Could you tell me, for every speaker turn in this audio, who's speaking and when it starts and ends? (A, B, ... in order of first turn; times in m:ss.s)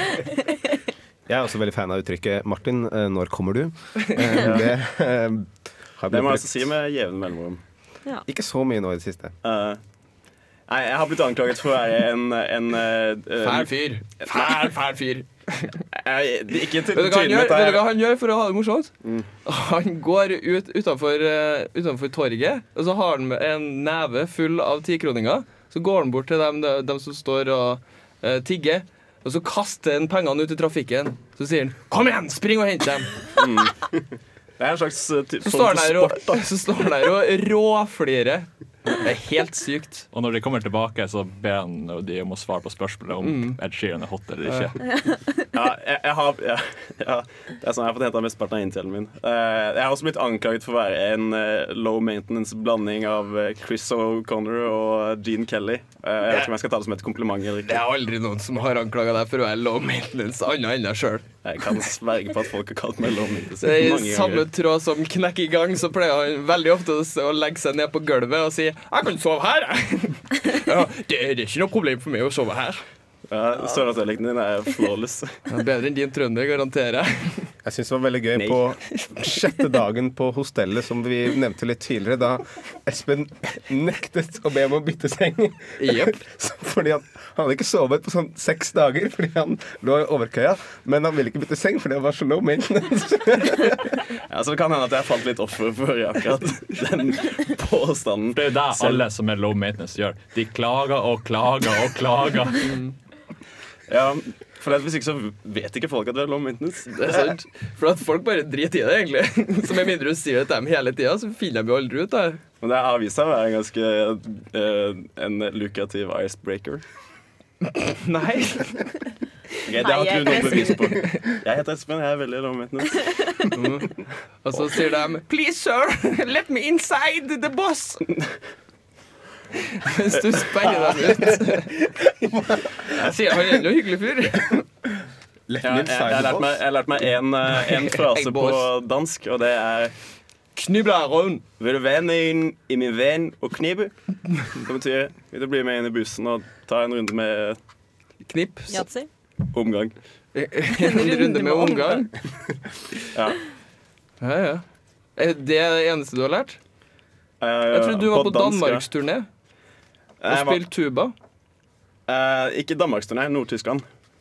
0:01.3-0:06.7 A
0:04.4-0:04.7 B
0:06.1-0:07.6 B
0:08.3-0:09.4 A
0:09.4-0:09.8 B
0:10.7-0:13.7 B
0:13.4-0:15.8 C
0:14.3-0:14.6 B
0:15.9-0:17.8 B
0:16.9-0:18.9 C
0:19.5-0:33.2 C
0:33.4-0:34.0 B
0:34.6-0:36.4 B
0:35.4-0:40.1 C
0:40.1-0:44.9 D
0:43.2-0:43.6 C
0:45.5-0:57.8 B
0:56.3-0:56.5 C
0:57.6-1:01.2 C
1:01.4-1:04.5 B
1:03.6-1:12.8 C
1:13.3-1:15.4 B
1:15.5-1:17.5 C
1:17.6-1:34.0 A
1:18.4-1:18.6 B
1:25.8-1:26.2 C
1:34.3-1:39.0 B
1:38.3-1:42.8 D
1:43.9-1:47.3 B
1:46.9-1:52.4 C
1:52.6-1:56.8 B
1:57.8-1:58.8 C
1:59.7-2:03.1 B
1:59.8-2:01.0 E
2:03.5-2:08.0 C
2:09.7-2:11.7 C
2:12.2-2:12.8 A
2:12.9-2:14.6 C
2:15.5-2:16.6 A
2:15.6-2:20.0 B
2:17.7-2:18.7 C
2:20.6-2:21.4 C
2:21.6-2:23.9 B
2:24.5-2:27.6 B
2:28.2-2:28.8 C
2:28.7-2:29.1 E
2:29.5-2:29.9 B
2:30.3-2:32.1 C
2:30.8-2:32.1 E
2:33.1-2:33.4 B
2:34.2-2:34.6 C
2:35.2-2:36.6 C
2:37.4-2:38.9 B
2:37.7-2:39.3 C
2:40.2-2:40.6 B
2:40.3-2:41.1 C
2:42.1-2:43.8 B